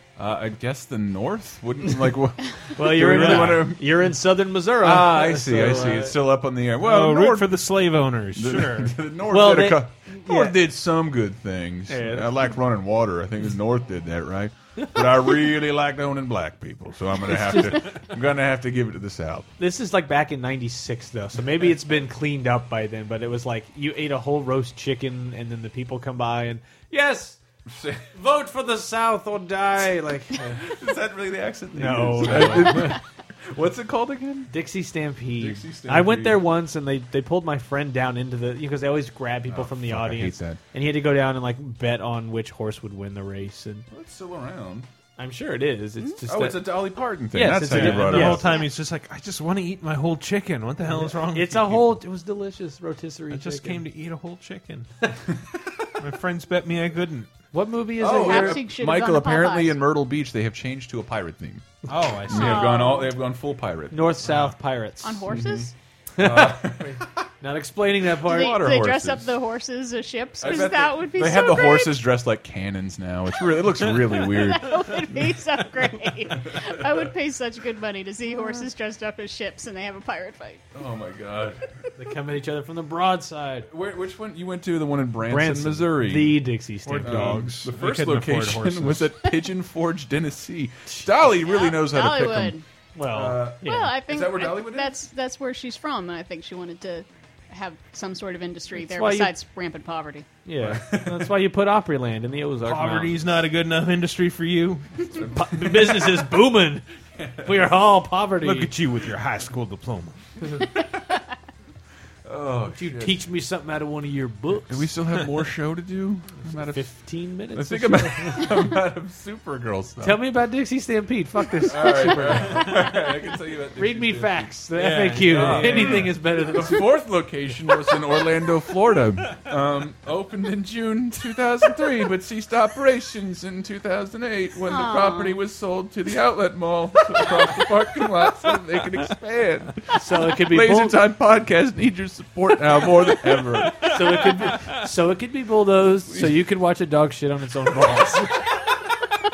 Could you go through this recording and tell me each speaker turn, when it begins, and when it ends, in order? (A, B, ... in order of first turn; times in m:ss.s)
0:00.2-0:04.0 A
0:02.8-0:06.2 B
0:02.9-0:03.7 C
0:04.8-0:07.6 A
0:06.8-0:09.0 C
0:08.3-0:19.5 A
0:09.3-0:10.6 B
0:11.9-0:12.3 B
0:17.2-0:18.0 B
0:19.6-0:27.4 B
0:27.6-0:28.1 A
0:28.1-0:30.6 B
0:30.4-0:34.5 A
0:31.7-0:33.0 B
0:34.5-0:43.9 B
0:35.4-0:36.4 A
0:39.5-0:40.6 A
0:43.9-0:44.9 A
0:45.2-0:48.5 B
0:46.2-0:48.6 A
0:47.6-0:52.0 C
0:50.9-0:53.8 B
0:53.3-0:54.9 C
0:56.0-0:57.3 C
0:57.5-0:58.6 B
0:58.0-1:04.3 A
0:58.0-0:59.8 D
1:01.9-1:02.7 C
1:02.3-1:03.1 D
1:03.9-1:05.3 B
1:04.2-1:04.5 C
1:05.0-1:05.7 D
1:05.3-1:07.2 A
1:06.2-1:08.6 B
1:08.2-1:09.3 A
1:08.2-1:12.0 D
1:10.4-1:15.3 A
1:14.2-1:20.6 D
1:16.3-1:17.1 A
1:20.7-1:21.7 A
1:22.0-1:23.7 B
1:23.6-1:26.4 A
1:25.3-1:27.5 B
1:26.8-1:29.1 C
1:27.0-1:35.0 A
1:31.4-1:32.6 D
1:32.9-1:34.0 B
1:33.6-1:40.3 D
1:38.8-1:39.3 B
1:40.4-1:43.2 B
1:40.6-1:41.3 A
1:42.6-1:45.2 C
1:45.1-1:46.3 A
1:45.3-1:46.8 B
1:47.2-1:47.7 A
1:47.4-1:48.7 B
1:48.4-1:50.2 C
1:50.5-1:50.8 A
1:52.2-1:53.2 A
1:52.7-1:54.9 B
1:54.7-1:56.9 A
1:56.4-1:58.6 B
1:57.5-2:00.2 A
2:00.0-2:02.8 B
2:01.6-2:04.6 A
2:03.8-2:06.9 B
2:04.7-2:06.1 C
2:05.2-2:24.0 A
2:14.7-2:15.4 D
2:19.9-2:21.0 B
2:23.8-2:28.5 B
2:26.1-2:26.4 A